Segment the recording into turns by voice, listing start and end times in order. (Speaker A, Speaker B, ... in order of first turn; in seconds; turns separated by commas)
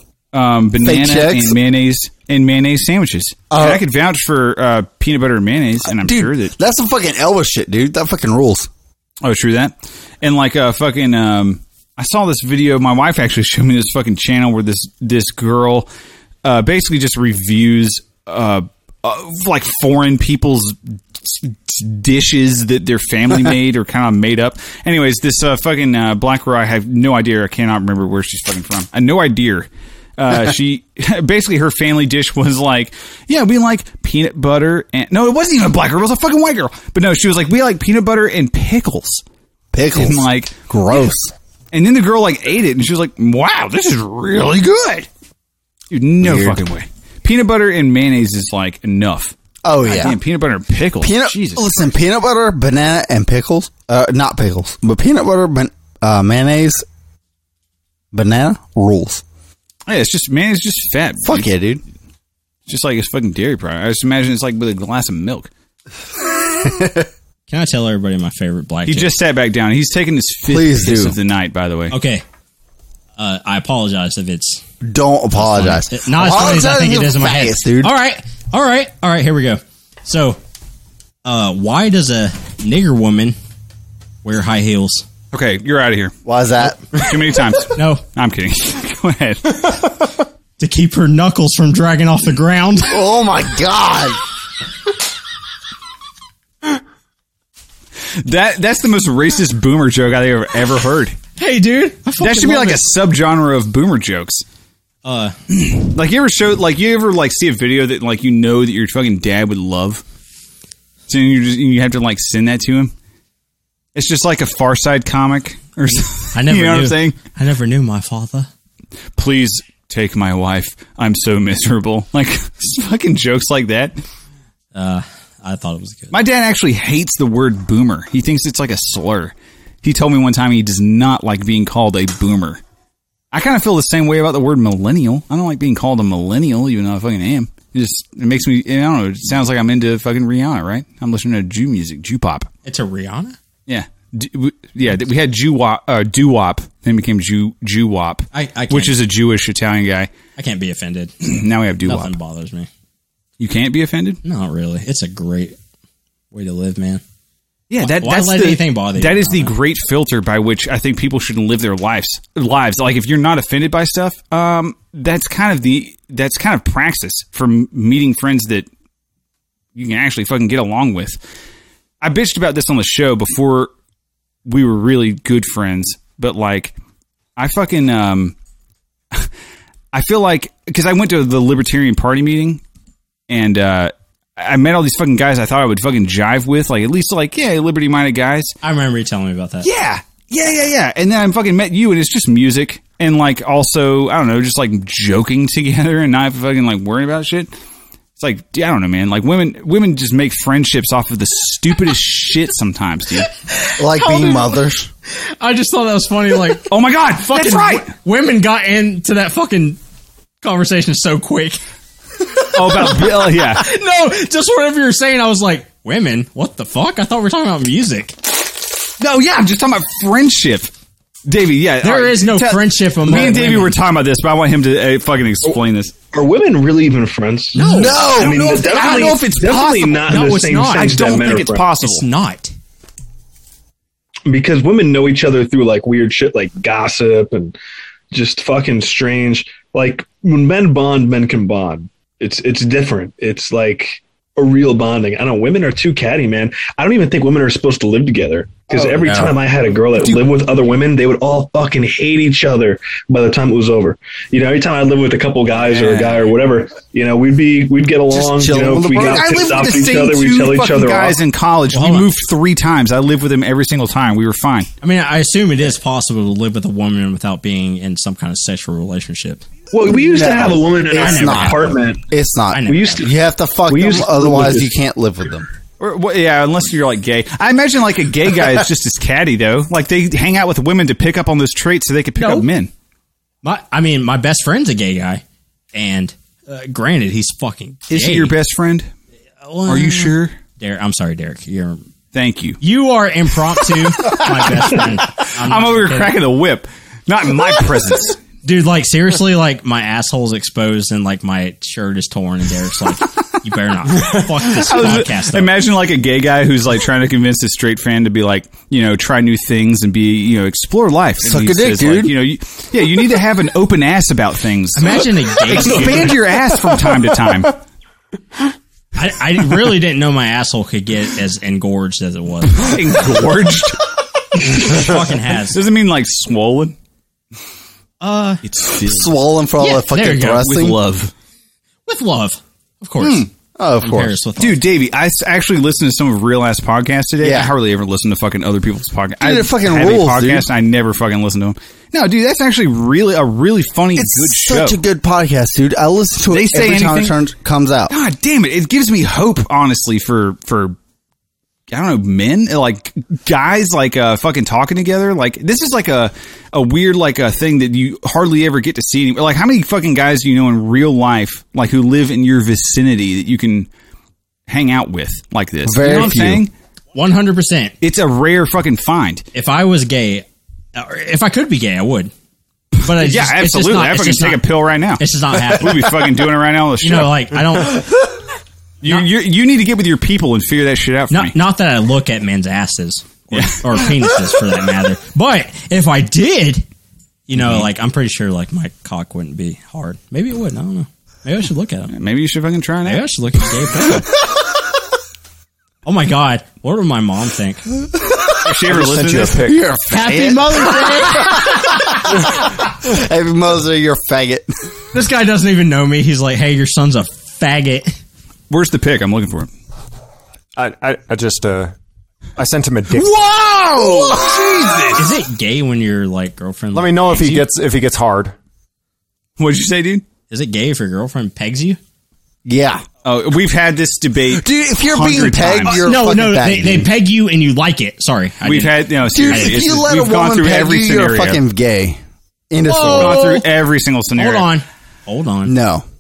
Speaker A: 0.3-6.5, Speaker B: 0.8-1.6, Speaker B: 3.5-3.8, Speaker B: 5.9-8.7, Speaker A: 9.2-15.9, Speaker A: 16.4-39.2, Speaker B: 39.7-41.3, Speaker A: 39.9-40.6, Speaker A: 41.7-45.1, Speaker A: 45.9-51.7, Speaker B: 46.2-46.6, Speaker B: 49.6-50.2, Speaker B: 51.0-56.9, Speaker B: 58.1-59.2, Speaker A: 59.9-61.5, Speaker B: 61.2-61.8, Speaker A: 62.7-65.5, Speaker B: 66.6-67.1, Speaker C: 67.5-69.1, Speaker A: 68.9-72.0, Speaker B: 70.5-71.2, Speaker C: 71.9-72.2, Speaker C: 73.2-74.6, Speaker B: 74.8-77.9, Speaker C: 75.3-80.4, Speaker C: 81.2-83.4, Speaker C: 84.2-85.1, Speaker A: 85.3-86.2, Speaker B: 86.2-86.8, Speaker A: 86.9-89.8, Speaker C: 87.8-88.0, Speaker C: 90.6-93.0, Speaker B: 92.9-94.2, Speaker A: 98.2-101.2, Speaker C: 101.4-102.9, Speaker A: 102.2-104.4, Speaker C: 105.0-105.4, Speaker A: 105.5-110.0, Speaker A: 111.1-112.9, Speaker A: 114.0-117.2, Speaker C: 115.9-118.5, Speaker A: 119.2-124.0, Speaker C: 124.7-126.2, Speaker A: 126.1-132.6, Speaker A: 133.3-142.5, Speaker C: 142.7-143.4, Speaker A: 143.7-150.1, Speaker C: 148.3-149.0, Speaker C: 150.4-151.2, Speaker A: 151.2-152.1, Speaker C: 151.8-152.7, Speaker A: 153.4-154.2, Speaker C: 154.2-155.6, Speaker C: 156.3-157.0, Speaker A: 157.7-168.7, Speaker C: 157.9-159.6, Speaker A: 169.8-171.2, Speaker A: 172.0-173.7, Speaker A: 174.5-176.8, Speaker A: 177.4-178.3, Speaker A: 179.9-182.6, Speaker A: 183.3-188.6, Speaker C: 188.6-189.7, Speaker A: 189.6-197.5, Speaker A: 198.2-203.3, Speaker C: 203.5-204.6, Speaker B: 203.8-204.9, Speaker C: 205.1-209.8, Speaker A: 206.7-207.9, Speaker C: 210.4-211.6, Speaker C: 212.3-218.2, Speaker A: 212.5-213.7, Speaker A: 219.0-220.7, Speaker A: 221.3-225.9, Speaker C: 221.8-223.8, Speaker D: 226.1-231.6, Speaker C: 227.6-228.1, Speaker B: 227.7-228.6, Speaker A: 227.9-232.1, Speaker C: 230.1-232.5, Speaker D: 234.3-237.6, Speaker D: 238.1-261.2, Speaker B: 248.8-249.2, Speaker C: 255.6-256.3, Speaker B: 258.1-259.6, Speaker A: 259.0-264.7, Speaker C: 261.7-262.1, Speaker C: 264.8-269.4, Speaker D: 269.7-272.0, Speaker B: 270.1-275.5, Speaker C: 270.9-271.8, Speaker C: 272.5-273.1, Speaker D: 272.6-273.1, Speaker D: 273.7-274.7, Speaker A: 275.8-282.7, Speaker C: 282.2-282.5, Speaker C: 283.4-285.2, Speaker C: 285.7-288.4, Speaker A: 287.9-288.9, Speaker C: 289.4-291.8, Speaker A: 289.7-290.4, Speaker A: 292.1-292.6, Speaker C: 292.6-296.1, Speaker A: 295.2-298.2, Speaker C: 298.4-305.5, Speaker A: 304.5-317.6, Speaker B: 311.2-312.1, Speaker C: 314.8-316.2, Speaker C: 319.0-323.0, Speaker A: 322.5-326.8, Speaker C: 324.4-325.6, Speaker C: 328.0-328.4, Speaker A: 328.4-329.1, Speaker B: 328.9-330.8, Speaker C: 329.6-330.5, Speaker A: 330.4-331.1, Speaker C: 331.9-333.3, Speaker A: 333.0-333.3, Speaker B: 333.6-334.2, Speaker C: 333.8-334.6, Speaker A: 334.4-344.8, Speaker B: 337.2-337.5, Speaker B: 339.2-340.5, Speaker B: 343.9-347.9, Speaker A: 346.3-347.1, Speaker A: 347.9-350.8, Speaker A: 351.7-363.7, Speaker A: 364.5-366.5, Speaker B: 365.6-366.5, Speaker C: 366.9-367.8, Speaker A: 367.8-369.3, Speaker C: 369.3-372.1, Speaker C: 372.8-374.5, Speaker A: 372.9-377.3, Speaker C: 375.0-376.1, Speaker C: 376.8-377.9, Speaker A: 378.8-381.4, Speaker C: 381.1-386.7, Speaker A: 383.3-383.9, Speaker C: 387.3-391.9, Speaker A: 387.4-387.7, Speaker A: 391.9-393.1, Speaker C: 392.9-394.1, Speaker C: 395.9-397.6, Speaker A: 398.4-399.5, Speaker E: 398.6-399.6, Speaker B: 399.4-402.3, Speaker C: 399.9-401.7, Speaker B: 402.8-404.5, Speaker C: 404.9-408.0, Speaker A: 408.5-409.5, Speaker E: 410.6-411.7, Speaker E: 412.4-413.2, Speaker A: 413.0-415.0, Speaker B: 413.8-414.7, Speaker C: 414.9-417.5, Speaker E: 416.7-418.4, Speaker A: 419.4-420.1, Speaker C: 420.3-421.8, Speaker B: 422.4-422.9, Speaker A: 423.0-425.9, Speaker B: 424.3-426.9, Speaker C: 425.7-429.6, Speaker A: 428.4-431.4, Speaker B: 429.1-433.3, Speaker C: 432.6-433.5, Speaker A: 432.9-434.5, Speaker C: 434.2-435.6, Speaker B: 435.4-435.9